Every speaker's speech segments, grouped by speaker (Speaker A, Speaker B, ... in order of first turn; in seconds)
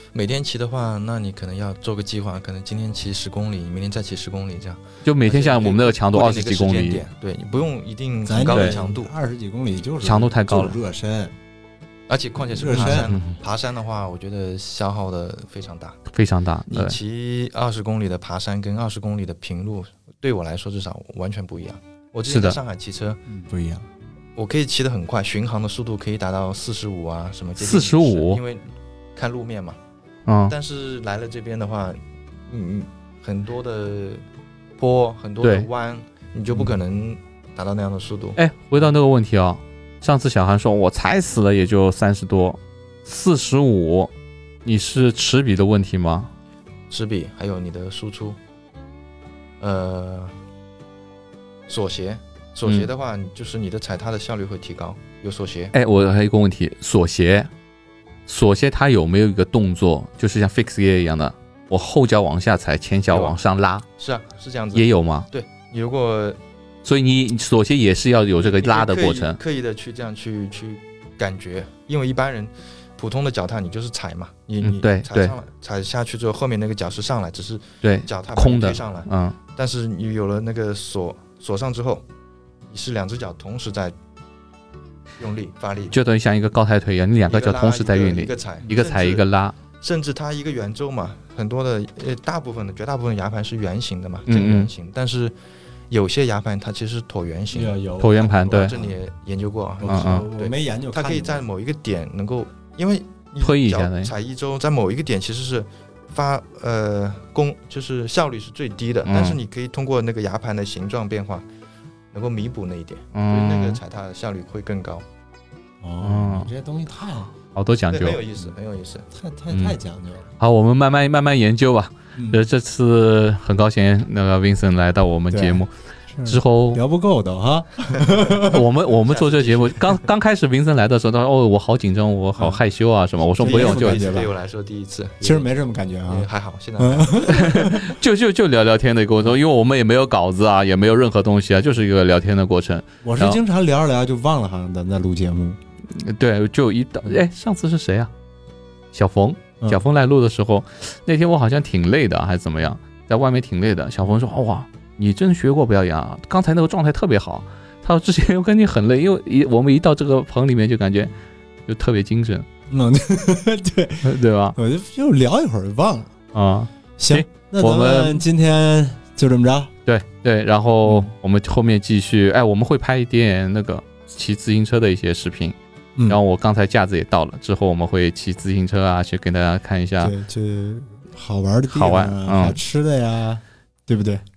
Speaker A: 0.1-9.1, 12.1-16.0, 16.7-23.2, 24.4-29.8, 30.5-34.2, 34.8-38.4, 46.9-48.4, 49.6-50.3, 51.7-55.7, 63.1-63.4, 64.0-66.4, 68.4-82.0, 82.7-84.0, 85.2-86.0, 87.3-89.2, 89.8-95.3, 95.9-111.5, 112.1-115.0, 117.9-119.1, 128.0-130.1, 133.4-135.5, 136.1-137.8
Speaker B: 5.0-7.0, 8.5-8.8, 10.0-10.8, 12.7-13.3, 16.1-17.0, 22.3-22.6, 27.6-28.4, 30.3-30.5, 35.4-35.7, 38.4-44.1, 44.6-46.3, 55.7-57.5, 58.3-63.9, 64.7-65.3, 66.8-69.4, 74.6-75.3, 77.8-79.4, 85.9-89.6, 94.3-94.7, 98.0-98.8, 99.9-100.2, 103.4-104.1, 109.1-109.4, 113.2-113.8, 116.0-116.5, 117.5-118.2, 119.5-119.8, 120.4-125.7, 126.3-126.8, 128.4-134.3, 137.3-143.4, 145.9-148.1, 148.9-161.1, 161.7-162.4, 164.0-164.6, 166.3-168.2, 169.9-175.6, 176.1-180.1, 181.7-182.6
Speaker C: 8.3-11.3, 12.5-13.1, 23.3-23.9, 97.5-98.9, 99.8-101.4, 115.8-117.3, 119.1-120.3, 122.2-122.4, 125.3-128.6, 133.4-134.3, 135.2-136.3, 136.8-137.9, 143.0-145.6, 162.7-166.1, 167.0-169.7, 170.8-171.1, 180.0-184.2